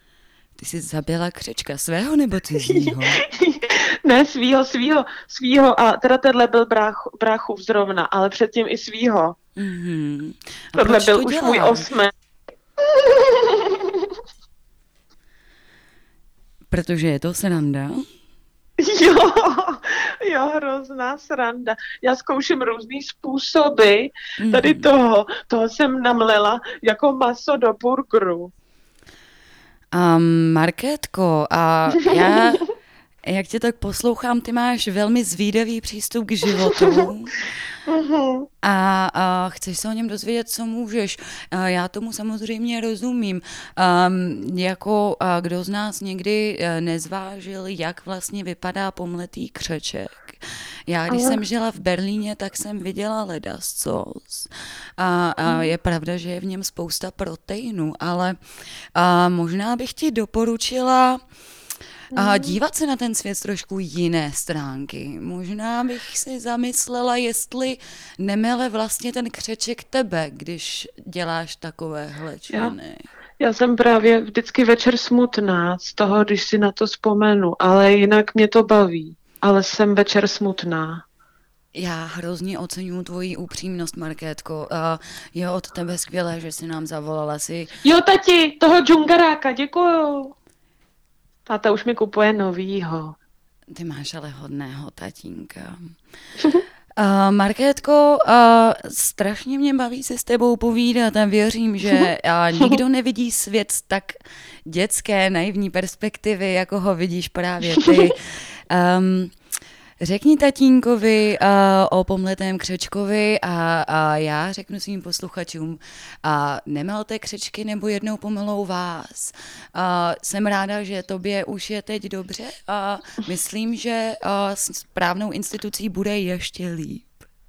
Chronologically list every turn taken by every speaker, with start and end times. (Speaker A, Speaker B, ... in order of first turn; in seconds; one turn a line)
Speaker A: 0.6-3.2
Speaker B: 2.6-9.3
Speaker A: 9.6-11.9
Speaker B: 10.8-12.1
Speaker B: 13.0-14.1
Speaker A: 16.7-18.1
Speaker B: 18.8-28.5
Speaker A: 24.4-24.9
Speaker A: 29.9-32.6
Speaker B: 32.0-32.6
Speaker A: 33.2-37.5
Speaker B: 36.6-37.1
Speaker B: 37.9-38.5
Speaker A: 38.6-58.4
Speaker B: 51.1-51.4
Speaker B: 55.5-55.7
Speaker A: 59.0-61.2
Speaker A: 62.1-73.1
Speaker B: 62.1-62.5
Speaker B: 72.5-72.8
Speaker B: 73.4-81.0
Speaker A: 81.7-87.7
Speaker B: 87.8-90.3
Speaker B: 91.5-93.2
Speaker A: 93.7-96.0
Speaker A: 97.0-109.3
Speaker B: 107.8-108.1
Speaker A: 110.0-127.1